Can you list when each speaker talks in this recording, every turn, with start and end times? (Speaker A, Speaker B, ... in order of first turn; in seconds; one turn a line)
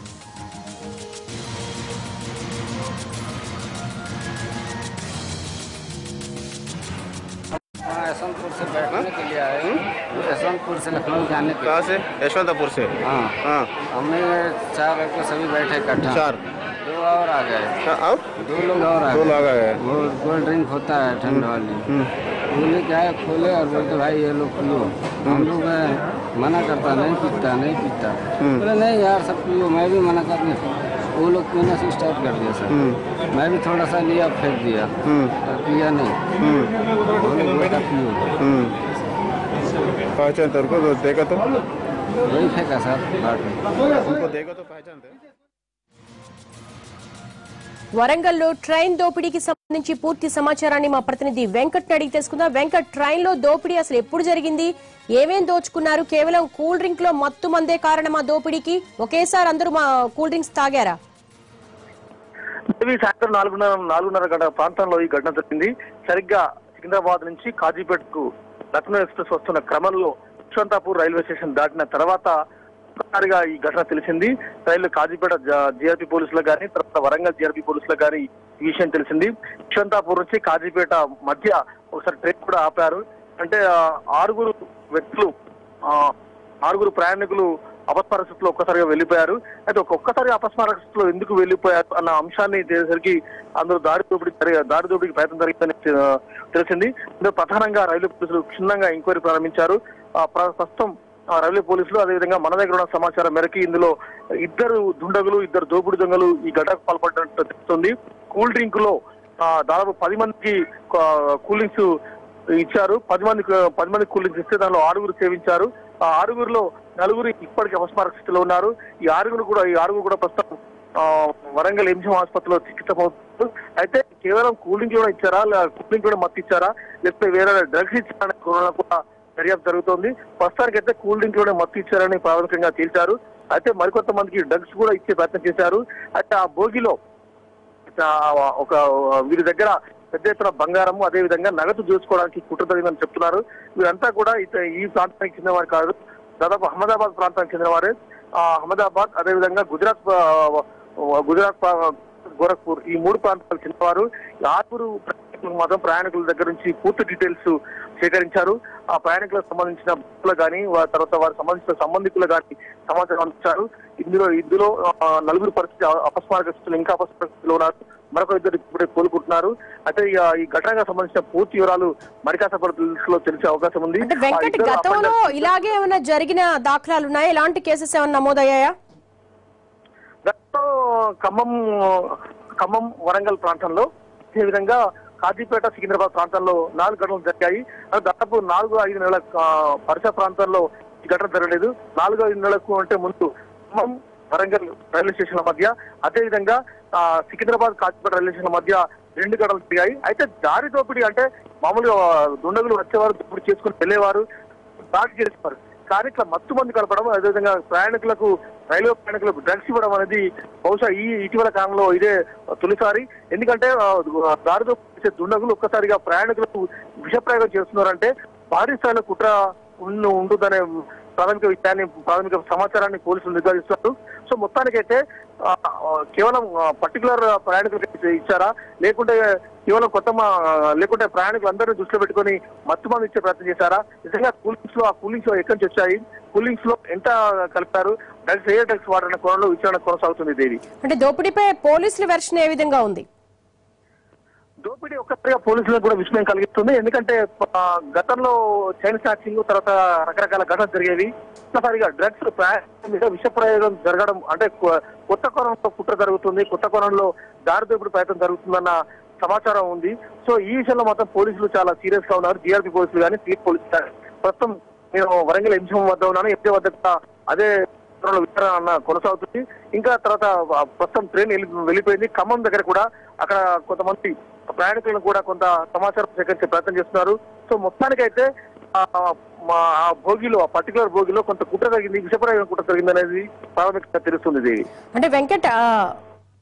Speaker A: 7.8-11.7
Speaker B: 11.6-13.7
Speaker A: 13.0-13.4
Speaker A: 13.9-16.2
Speaker B: 16.1-16.4
Speaker A: 16.8-17.7
Speaker B: 17.8-18.4
Speaker A: 18.4-21.9
Speaker B: 19.1-19.8
Speaker B: 21.3-22.1
Speaker A: 22.5-30.6
Speaker A: 31.1-36.4
Speaker B: 32.7-33.0
Speaker B: 35.1-35.3
Speaker B: 36.4-36.7
Speaker A: 37.1-38.3
Speaker B: 38.4-38.8
Speaker B: 40.2-41.5
Speaker A: 42.2-43.6
Speaker B: 44.0-45.2
Speaker C: 48.0-61.0
Speaker D: 62.8-72.3
Speaker D: 73.0-85.3
Speaker D: 85.8-111.9
Speaker D: 112.5-136.9
Speaker D: 137.9-175.5
Speaker C: 174.0-178.7
Speaker D: 180.2-204.2
Speaker D: 204.8-240.6
Speaker C: 240.8-243.1
Speaker D: 244.6-284.6
Speaker C: 284.9-286.0